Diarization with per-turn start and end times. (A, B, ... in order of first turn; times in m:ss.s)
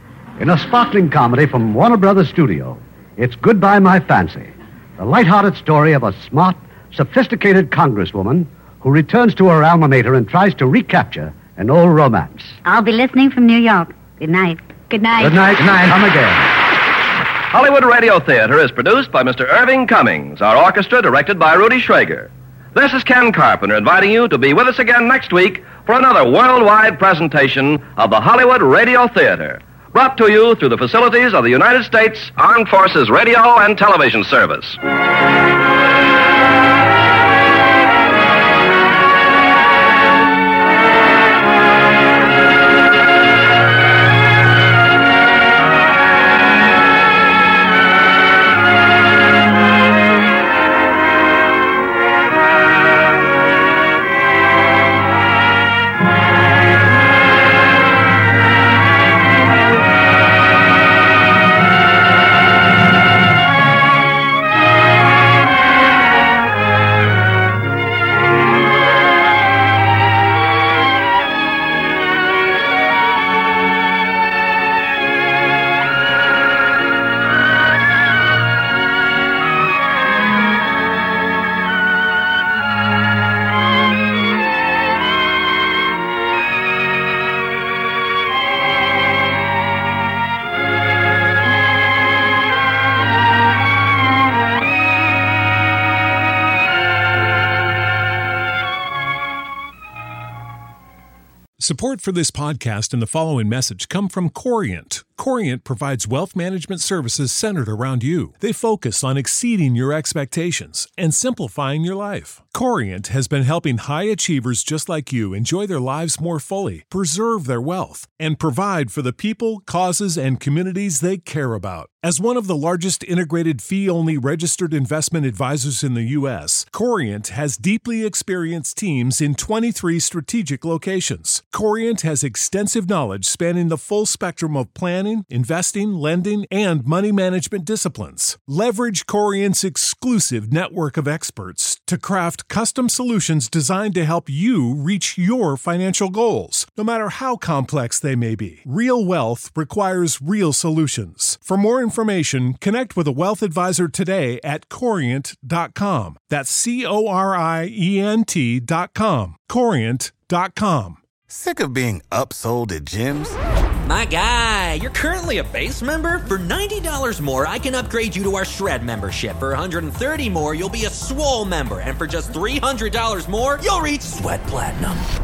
0:00.4-0:12.6 A
0:12.6-0:15.3 B
0:15.2-0:16.5 A
0:17.5-0:34.8 C
1:41.6-2:41.0 D
2:41.3-2:43.4 E
2:43.8-2:55.0 F